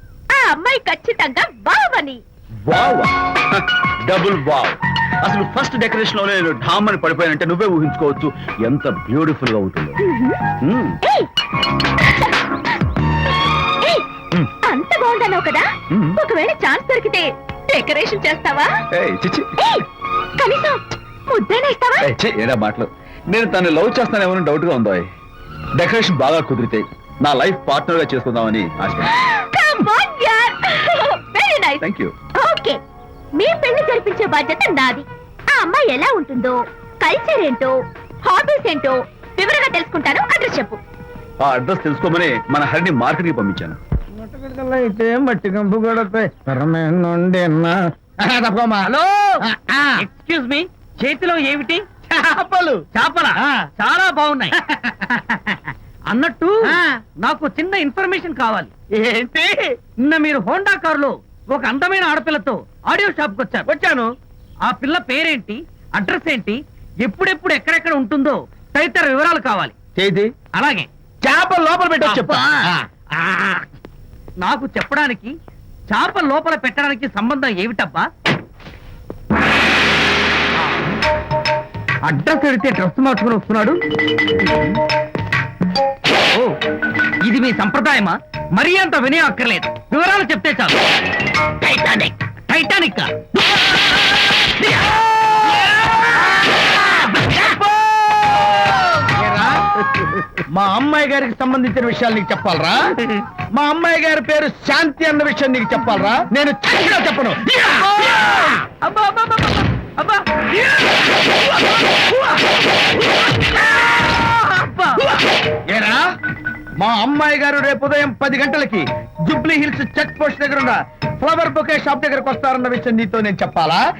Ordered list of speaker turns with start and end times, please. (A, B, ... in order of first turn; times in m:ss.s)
0:00.3-0:02.2 A
0:02.7-0:10.0 B
0:10.0-0:10.4 A
0:10.6-0:11.0 B
0:11.0-0:11.3 A
0:12.1-0:12.3 A
0:13.8-0:14.1 A
0:14.6-0:18.7 A
0:15.9-0:16.2 B
0:18.9-0:19.6 B
0:19.6-0:19.8 A
0:20.4-0:22.1 A
0:22.0-0:25.1 B
0:25.8-0:29.1 B
0:29.1-0:31.8 A
0:31.8-0:32.1 B
0:32.3-0:32.8 A
0:33.4-0:40.8 A
0:41.4-0:43.8 B
0:44.2-0:48.9 C
0:48.8-0:49.4 D
0:49.4-0:50.0 C
0:50.0-0:51.8 D
0:52.1-0:52.8 C
0:53.0-0:54.6 D
0:55.2-0:58.7 D
0:59.0-0:59.8 C
1:00.0-1:03.7 D
1:03.7-1:04.1 C
1:04.7-1:09.8 D
1:10.0-1:10.3 B
1:10.5-1:10.9 D
1:11.2-1:12.6 C
1:12.0-1:12.6 D
1:13.2-1:13.6 D
1:14.4-1:15.3 D
1:15.9-1:18.1 D
1:22.0-1:23.8 D
1:27.2-1:30.8 D
1:31.6-1:33.7 D
1:36.6-1:38.0 D
1:39.2-1:39.7 C
1:40.5-1:42.9 C
1:43.5-1:48.2 C
1:47.8-1:52.3 D
1:54.0-1:55.0 D
1:55.7-1:56.0 C
1:56.8-2:03.8 C